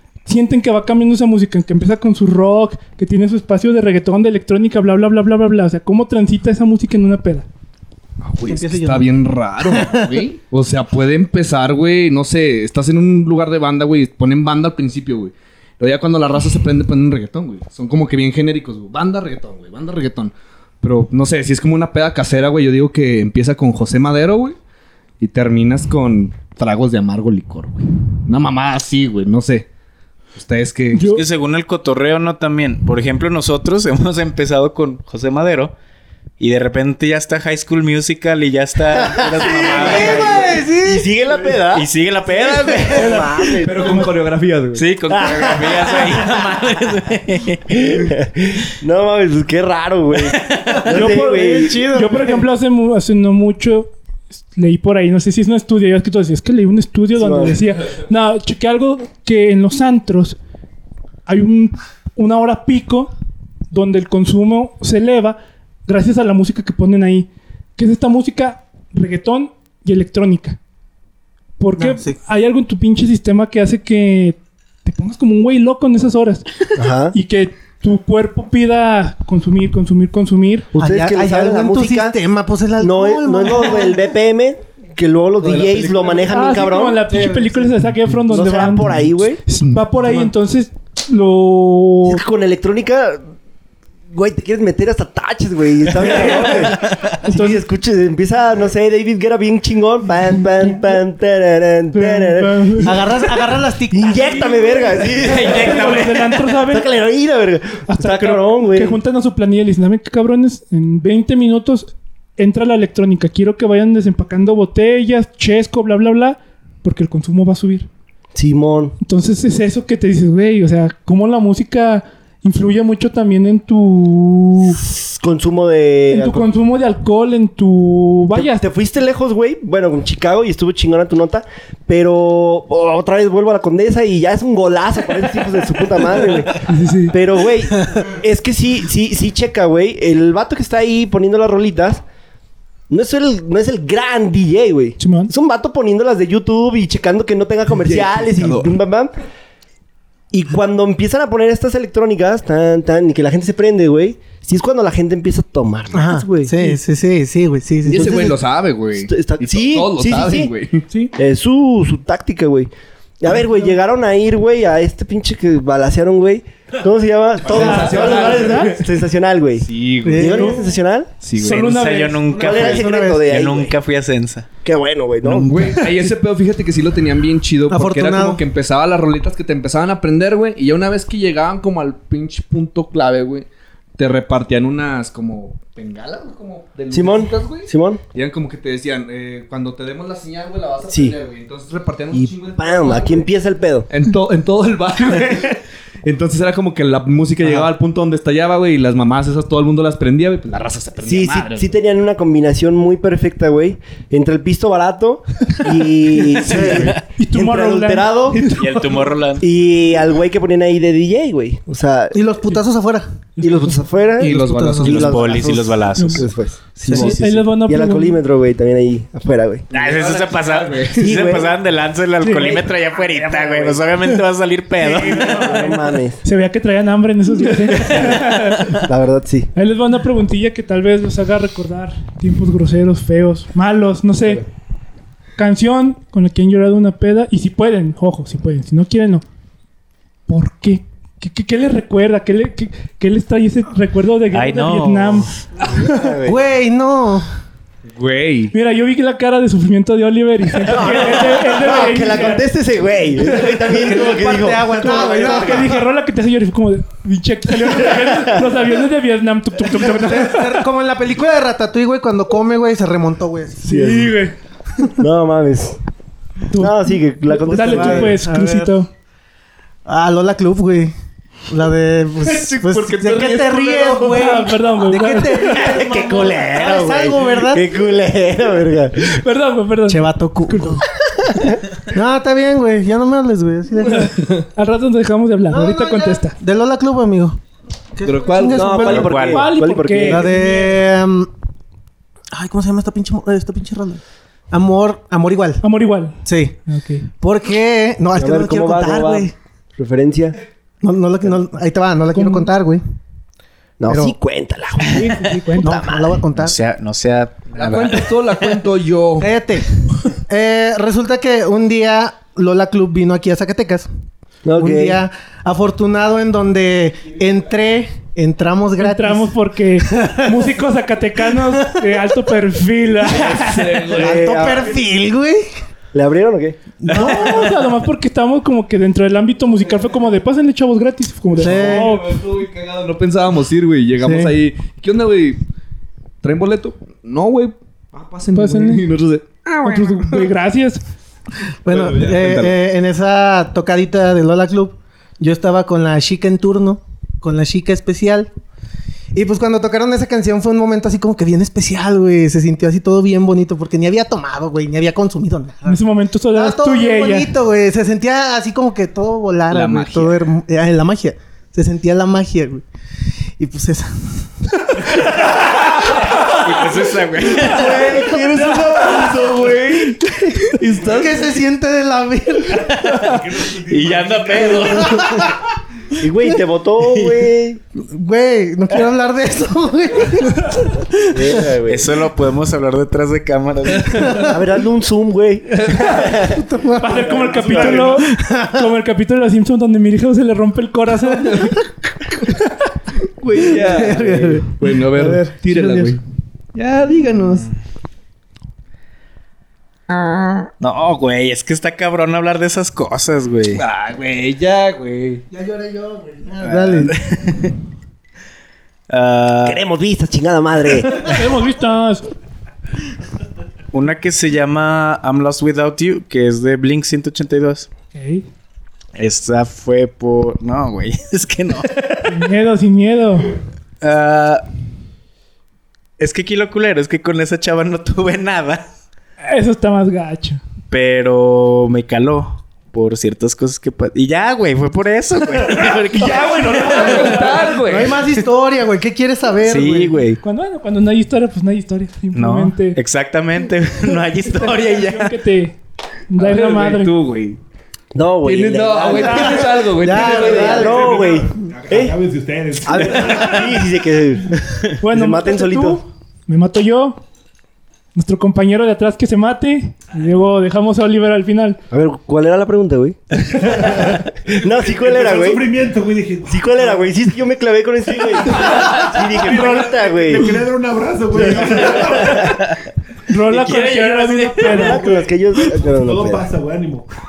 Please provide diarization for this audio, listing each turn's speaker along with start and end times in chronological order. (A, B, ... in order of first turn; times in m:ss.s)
0:00.2-0:07.5 A
0:08.2-0:24.6 B
0:08.4-0:09.1 C
0:09.6-0:10.2 C
0:25.2-0:29.7 B
0:30.4-0:31.1 B
0:30.9-0:31.2 A
0:31.1-0:35.8 D
0:36.4-0:40.6 D
0:38.9-0:44.1 E
0:39.3-0:41.1 C
0:41.7-0:43.2 D
0:43.0-0:43.2 A
0:43.6-0:44.8 B
0:44.7-0:47.6 D
0:45.1-0:46.5 E
0:47.7-0:51.8 E
0:50.9-1:00.4 A
0:51.0-0:52.4 C
0:57.1-0:57.6 E
1:01.2-1:03.1 A
1:03.7-1:10.6 A
1:11.6-1:16.5 A
1:11.8-1:12.2 C
1:16.8-1:17.2 E
1:17.1-1:20.7 A
1:20.8-1:24.0 C
1:20.8-1:22.2 E
1:22.8-1:27.0 E
1:25.4-1:26.6 B
1:26.3-1:32.2 A
1:27.1-1:27.7 C
1:28.3-1:29.4 E
1:29.6-1:30.2 B
1:32.1-1:33.2 E
1:34.1-1:49.0 E
1:36.9-1:37.2 D
1:37.2-1:37.6 A
1:41.9-1:43.0 A
1:42.8-1:44.5 C
1:45.2-1:46.4 D
1:45.3-1:46.9 A
1:47.9-1:57.9 A
1:58.3-1:59.0 E
1:59.0-2:04.8 A
2:04.8-2:06.5 E
2:06.1-2:08.6 A
2:08.3-2:22.0 E
2:16.6-2:17.1 A
2:22.9-2:29.1 E
2:25.0-2:25.3 A
2:27.7-2:28.7 B
2:30.3-2:36.6 E
2:35.9-2:38.2 C
2:37.8-2:40.9 B
2:37.9-2:38.4 E
2:38.9-2:40.5 E
2:41.2-2:51.1 E
2:47.4-2:48.9 B
2:47.5-2:48.8 A
2:49.6-2:50.4 B
2:50.0-2:50.7 C
2:50.3-2:50.6 A
2:51.2-2:52.0 B
2:51.4-2:52.3 A
2:51.5-2:54.5 D
2:52.3-2:53.8 E
2:52.4-2:53.3 C
2:54.6-2:55.6 E
2:55.2-2:55.9 D
2:55.5-3:03.4 B
2:57.7-2:58.4 C
3:04.0-3:13.3 B
3:06.9-3:08.0 E
3:10.9-3:11.1 E
3:12.1-3:13.9 E
3:13.9-3:21.7 B
3:21.0-3:28.6 E
3:26.4-3:26.9 C
3:26.5-3:28.6 A
3:26.5-3:26.9 B
3:28.5-3:29.4 D
3:29.4-3:32.2 E
3:32.1-3:33.1 C
3:33.4-3:39.7 E
3:34.2-3:35.3 C
3:34.2-3:35.6 B
3:34.9-3:36.3 D
3:35.9-3:36.3 A
3:36.8-3:37.2 C
3:36.9-3:38.2 A
3:39.7-3:41.1 B
3:39.7-3:45.6 D
3:40.9-3:41.6 E
3:42.2-3:42.5 A
3:42.3-3:43.8 E
3:44.8-3:46.2 E
3:45.2-3:45.6 A
3:46.2-3:48.8 A
3:47.9-3:49.5 E
3:49.6-3:54.4 A
3:55.4-3:59.2 A
4:00.3-4:06.0 A
4:04.3-4:05.4 D
4:05.6-4:06.4 E
4:06.2-4:07.2 C
4:08.0-4:08.5 B
4:08.5-4:12.4 A
4:10.6-4:15.6 E
4:10.7-4:12.3 C
4:13.7-4:15.8 C
4:14.8-4:20.6 A
4:17.8-4:18.5 E
4:19.8-4:23.7 C
4:23.6-4:24.3 A
4:23.7-4:24.1 E
4:25.0-4:25.8 E
4:26.5-4:28.9 A
4:26.6-4:28.2 E
4:27.3-4:28.7 C
4:29.9-4:30.9 C
4:31.5-4:37.8 C
4:32.2-4:34.2 B
4:34.1-4:35.7 A
4:35.4-4:39.2 E
4:39.0-4:40.8 A
4:39.9-4:40.8 C
4:41.9-4:44.2 C
4:44.6-4:46.4 A
4:45.5-4:47.4 C
4:48.0-4:49.2 C
4:48.0-4:49.2 B
4:48.5-4:50.6 E
4:48.9-4:49.5 D
4:49.2-4:50.6 A
4:50.1-4:51.3 C
4:52.3-4:55.6 C
4:55.6-4:57.1 A
4:56.2-4:56.6 C
4:57.2-4:59.3 C
4:58.2-5:00.4 E
5:00.8-5:02.8 C
5:02.1-5:02.5 A
5:03.8-5:06.2 E
5:03.9-5:04.2 C
5:04.8-5:05.8 A
5:05.6-5:06.6 C
5:06.4-5:08.2 D
5:07.6-5:09.3 B
5:09.2-5:13.9 C
5:14.4-5:15.0 E
5:14.6-5:20.5 C
5:18.8-5:24.0 A
5:21.3-5:22.0 C
5:23.1-5:24.4 B
5:23.9-5:24.8 E
5:24.0-5:25.4 C
5:25.9-5:26.8 E
5:26.8-5:27.3 C
5:26.9-5:32.1 A
5:26.9-5:27.5 D
5:31.3-5:31.9 C
5:31.4-5:35.4 B
5:34.0-5:34.3 C
5:36.2-5:40.0 B
5:38.3-5:38.8 A
5:39.6-5:40.8 A
5:41.6-5:48.3 C
5:41.6-5:42.6 B
5:49.1-5:55.8 C
5:55.7-5:57.3 A
5:56.3-6:02.6 C
5:59.5-6:00.2 B
6:03.4-6:04.8 C
6:05.4-6:07.9 D
6:07.4-6:09.6 E
6:07.8-6:08.9 C
6:08.5-6:11.3 B
6:10.1-6:12.8 C
6:10.7-6:11.2 F
6:12.6-6:15.0 F
6:12.7-6:15.2 D
6:14.6-6:15.3 C
6:16.0-6:17.6 E
6:16.8-6:17.2 D
6:17.7-6:21.2 C
6:21.1-6:22.0 E
6:21.6-6:24.3 D
6:24.1-6:26.4 E
6:26.0-6:28.7 C
6:26.8-6:31.5 A
6:31.2-6:31.6 B
6:33.2-6:36.0 B
6:33.3-6:36.0 C
6:33.3-6:34.0 E
6:36.6-6:37.5 C
6:40.6-6:43.6 D
6:43.6-6:45.2 B
6:45.3-6:46.9 C
6:46.8-6:47.5 D
6:48.9-6:49.6 D
6:49.4-6:51.3 E
6:50.9-6:52.1 A
6:53.7-6:57.7 D
6:57.9-6:58.2 A
6:59.0-7:02.2 D
7:02.1-7:03.3 A
7:03.8-7:04.4 D
7:06.0-7:08.7 D
7:09.2-7:10.4 A
7:10.7-7:17.5 D
7:16.0-7:18.0 B
7:17.6-7:20.0 C
7:19.4-7:20.2 D
7:20.2-7:22.8 A
7:22.1-7:25.1 D
7:24.2-7:25.6 A
7:26.1-7:26.9 A
7:26.2-7:27.4 B
7:27.9-7:32.0 E
7:28.2-7:30.9 B
7:28.9-7:29.2 A
7:29.8-7:31.0 C
7:30.5-7:33.6 F
7:32.7-7:35.8 E
7:32.8-7:33.1 D
7:34.8-7:37.0 A
7:37.9-7:41.6 A
7:41.7-7:45.5 E
7:43.5-7:47.0 F
7:46.3-7:50.4 E
7:48.4-7:52.4 F
7:51.2-7:52.3 E
7:53.1-7:55.0 A
7:53.3-7:54.6 D
7:54.4-7:56.3 E
7:54.6-7:56.9 F